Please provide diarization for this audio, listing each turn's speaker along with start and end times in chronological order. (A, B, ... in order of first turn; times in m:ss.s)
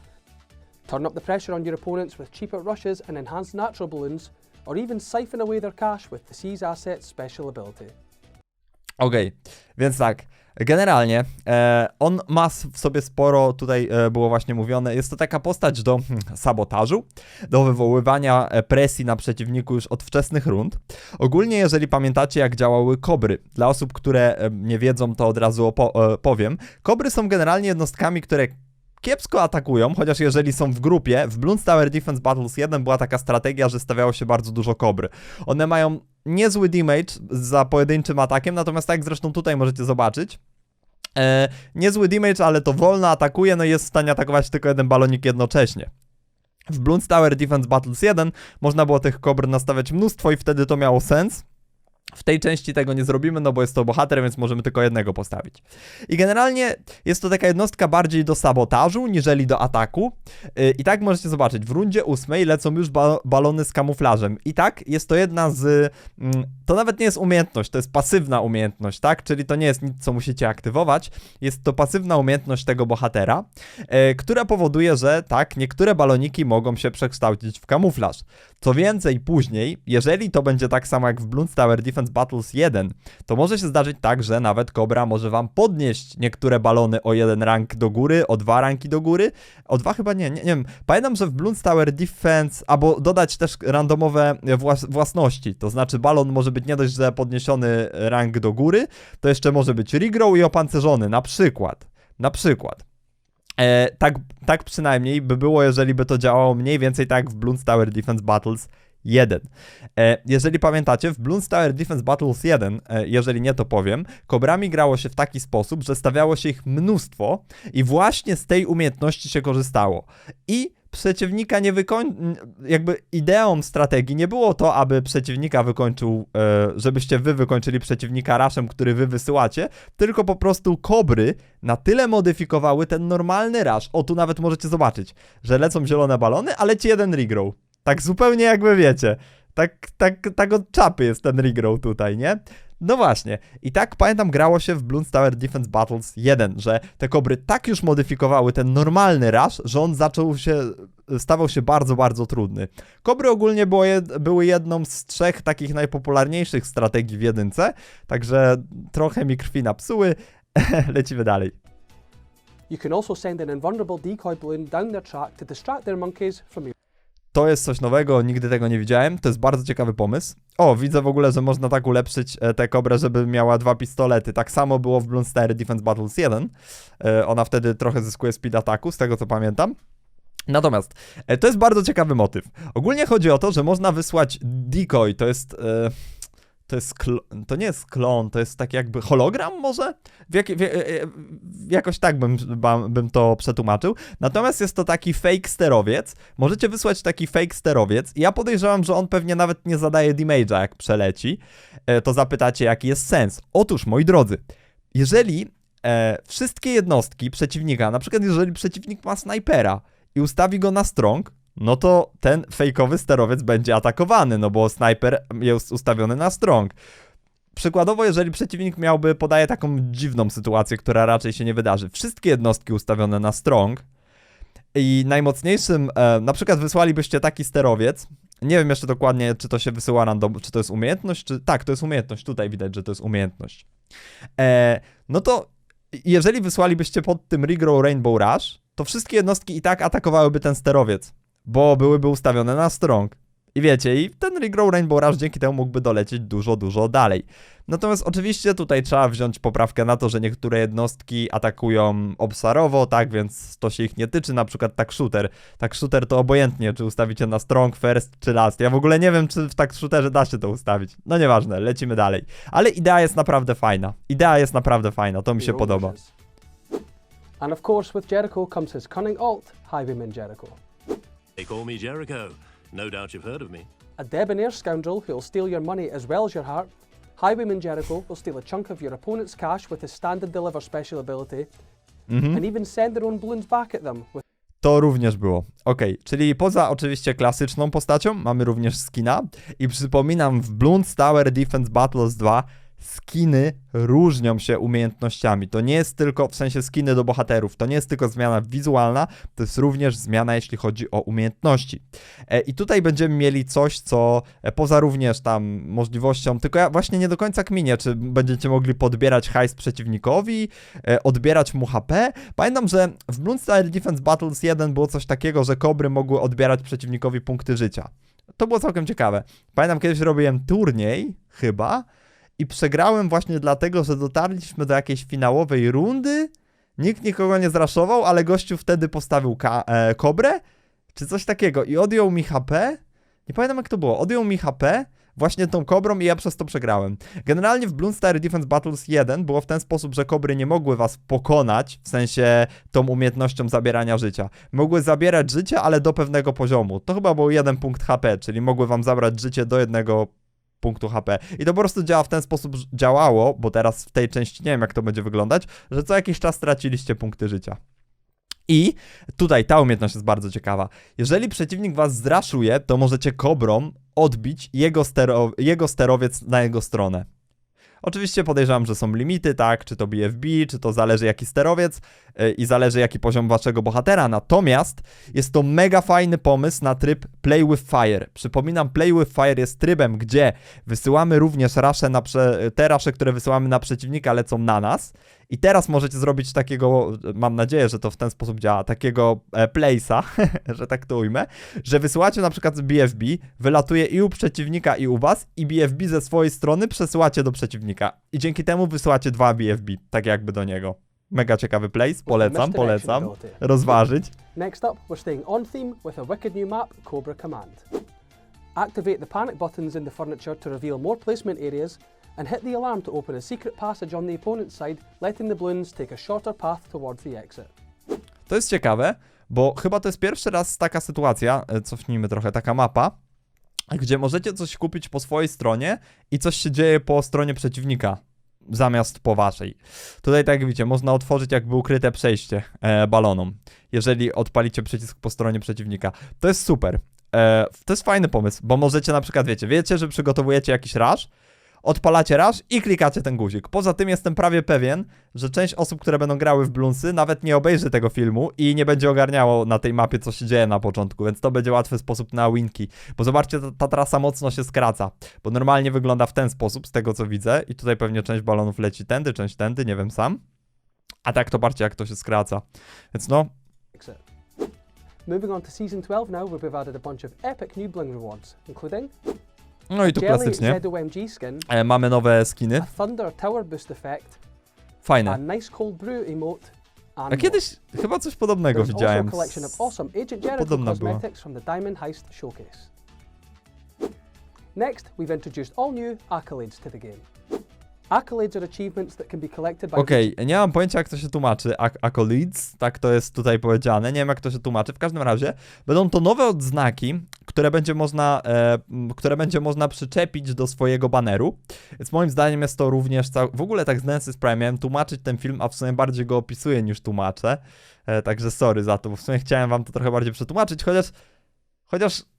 0:00.9-0:08.0 A
0:09.0-0:40.4 B
0:41.2-0:45.9 B
0:46.7-0:51.4 B
0:52.1-1:42.8 B
1:43.6-2:41.6 B
2:42.7-2:46.7 A
2:47.3-2:59.8 B
3:00.5-3:05.9 B
3:06.7-3:24.4 B
3:24.9-3:36.8 B
3:37.5-3:43.8 B
3:44.8-3:53.7 B
3:54.4-4:26.0 B
4:25.4-4:26.1 A
4:27.4-4:30.6 A
4:31.4-4:33.7 C
4:34.0-4:41.5 A
4:42.1-4:42.4 B
4:42.3-4:44.2 A
4:44.6-5:21.9 B
5:22.4-5:30.4 B
5:30.9-5:50.1 B
5:50.6-5:57.6 B
5:58.5-6:07.1 B
6:07.8-6:44.1 B
6:42.0-6:43.7 A
6:44.3-6:47.7 A
6:48.6-6:57.5 A
6:58.3-7:03.0 B
7:03.7-7:21.1 B
7:21.6-7:40.2 B
7:41.1-7:43.3 B
7:43.7-7:44.0 A
7:45.1-7:48.9 A
7:49.7-7:50.6 B
7:49.8-7:51.5 A
7:51.5-7:52.7 B
7:52.6-7:54.2 A
7:54.8-7:55.2 B
7:55.1-7:57.4 A
7:57.1-7:59.5 B
7:58.5-8:02.7 A
8:00.4-8:01.0 B
8:04.5-8:07.0 A
8:07.9-8:10.2 A
8:09.8-8:30.9 B
8:31.7-8:32.0 B